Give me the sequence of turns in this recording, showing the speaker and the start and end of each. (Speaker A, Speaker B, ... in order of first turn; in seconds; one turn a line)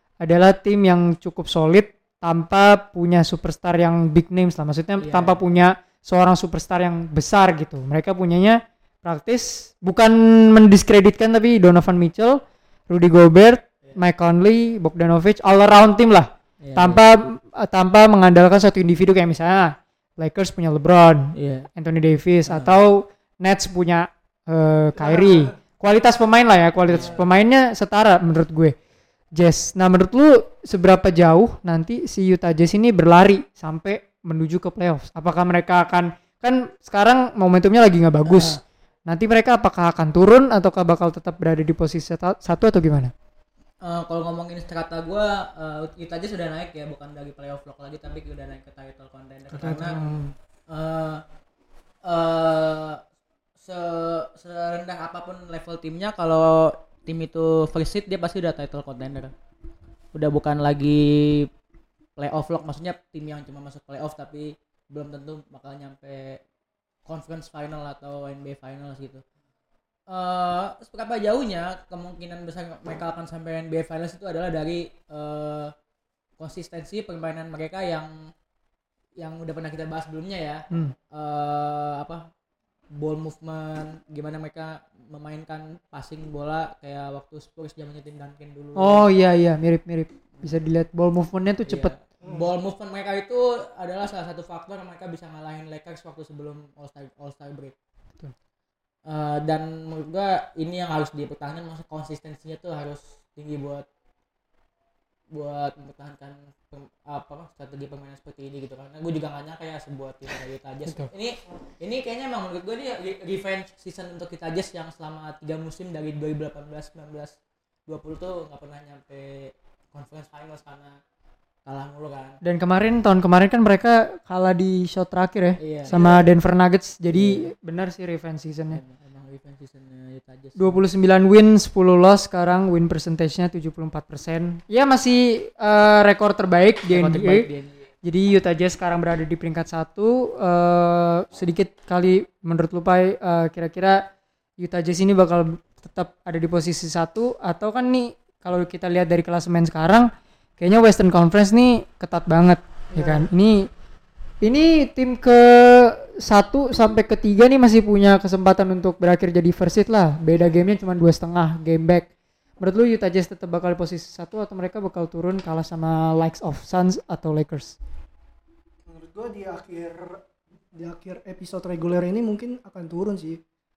Speaker A: 0.2-28.7
Speaker B: 5.0-5.4
Speaker B: 16.6-17.1
Speaker B: 21.3-21.7
Speaker B: 22.5-22.7
Speaker C: 25.0-25.5
Speaker B: 26.9-27.2
Speaker A: 29.3-43.1
Speaker B: 43.8-50.0
Speaker C: 49.5-50.3
Speaker B: 50.7-51.2
Speaker B: 52.0-53.0
Speaker B: 53.6-59.3
Speaker B: 60.1-61.5
Speaker B: 62.2-66.4
Speaker B: 67.0-69.2
Speaker B: 70.1-75.7
Speaker B: 76.4-78.3
Speaker B: 79.2-82.3
Speaker A: 80.7-81.0
Speaker B: 82.9-89.0
Speaker A: 88.8-91.9
Speaker B: 91.7-97.7
Speaker C: 92.2-92.5
Speaker B: 99.0-103.8
Speaker B: 105.3-117.3
Speaker B: 117.9-121.0
Speaker B: 121.7-122.4
Speaker A: 122.4-128.8
Speaker B: 125.6-125.9
Speaker C: 125.9-126.3
Speaker B: 127.1-127.5
Speaker B: 128.7-130.8
Speaker A: 130.6-137.5
Speaker B: 136.9-137.9
Speaker A: 138.0-144.1
Speaker A: 144.6-153.7
Speaker C: 152.9-153.3
Speaker A: 154.4-162.1
Speaker A: 162.6-167.8
Speaker C: 168.9-170.2
Speaker C: 170.7-173.4